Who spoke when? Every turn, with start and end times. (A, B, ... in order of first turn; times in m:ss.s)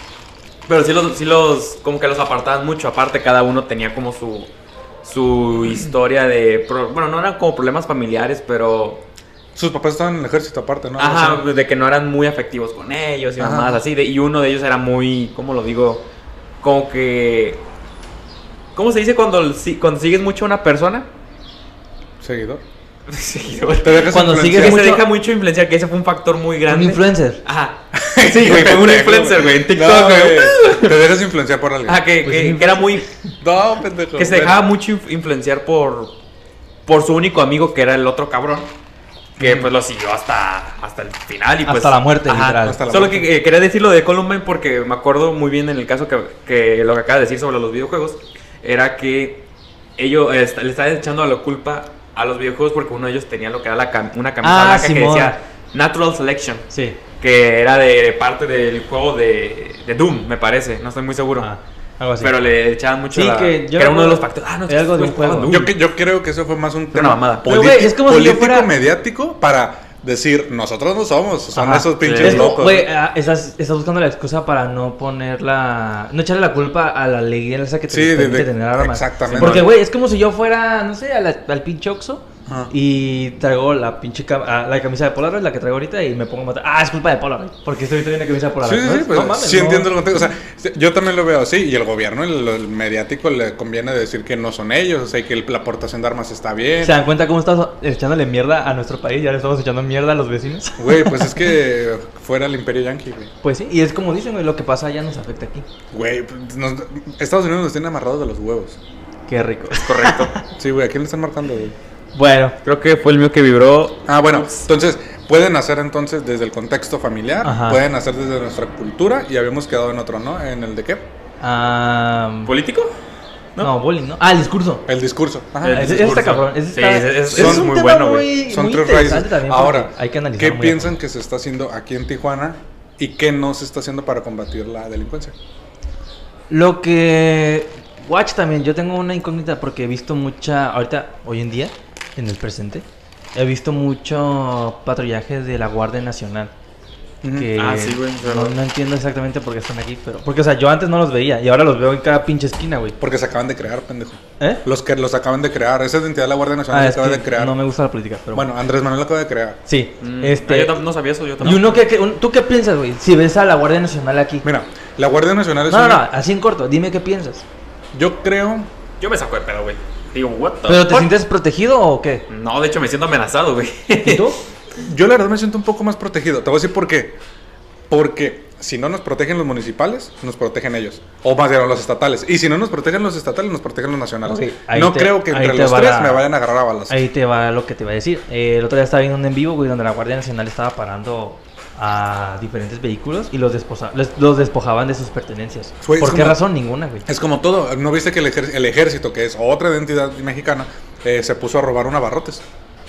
0:00.7-0:04.5 A
0:05.0-0:09.0 A
0:09.5-0:11.4 B
0:11.0-0:16.0 A
0:13.4-0:13.8 B
0:16.6-0:17.6 A
0:18.7-0:21.1 A
0:22.2-0:22.6 B
0:23.1-0:31.0 A
0:23.8-0:24.8 B
0:24.1-0:25.0 C
0:26.7-0:27.4 C
0:27.9-0:32.0 B
0:31.8-0:33.0 A
0:32.2-0:33.0 C
0:33.4-0:34.6 B
0:34.2-0:36.1 A
0:36.8-0:38.7 A
0:39.4-0:39.7 B
0:39.4-0:49.4 A
0:41.6-0:42.8 C
0:42.6-0:43.3 B
0:50.0-0:56.7 A
0:54.4-0:55.4 C
0:56.7-0:57.0 C
0:57.2-1:01.5 A
1:01.4-1:02.3 C
1:02.2-1:05.7 A
1:03.1-1:05.6 C
1:05.4-1:12.9 B
1:06.9-1:07.4 A
1:07.4-1:08.7 C
1:11.5-1:29.9 C
1:12.0-1:12.5 A
1:17.9-1:19.7 B
1:19.3-1:19.7 A
1:22.4-1:22.7 B
1:28.6-1:37.0 B
1:36.8-1:41.5 C
1:40.8-1:43.3 B
1:43.4-1:45.6 C
1:45.9-1:48.8 B
1:49.3-1:50.4 C
1:49.7-1:50.3 A
1:50.6-1:51.8 B
1:52.1-1:52.6 C
1:52.6-1:54.6 A
1:54.1-2:01.0 B
1:57.4-1:57.8 C
2:01.4-2:02.5 C
2:02.4-2:02.9 A
2:03.6-2:04.8 C
2:04.9-2:06.2 B
2:05.6-2:08.3 A
2:05.7-2:10.9 C
2:07.3-2:07.7 B
2:08.5-2:15.3 B
2:16.5-2:26.5 C
2:27.2-2:27.5 B
2:27.3-2:33.0 C
2:27.6-2:28.5 A
2:33.0-2:37.6 B
2:36.7-2:38.5 C
2:38.3-2:39.6 B
2:39.7-2:40.8 C
2:40.0-2:41.8 A
2:41.4-2:44.4 C
2:44.4-2:46.0 B
2:45.7-2:47.4 C
2:47.9-2:48.7 B
2:49.0-2:51.2 A
2:50.7-2:52.2 C
2:52.3-2:54.3 A
2:54.0-2:54.4 C
2:54.8-2:57.2 B
2:57.9-3:07.0 B
3:04.3-3:06.3 C
3:06.9-3:17.0 C
3:15.8-3:16.4 B
3:17.0-3:22.4 B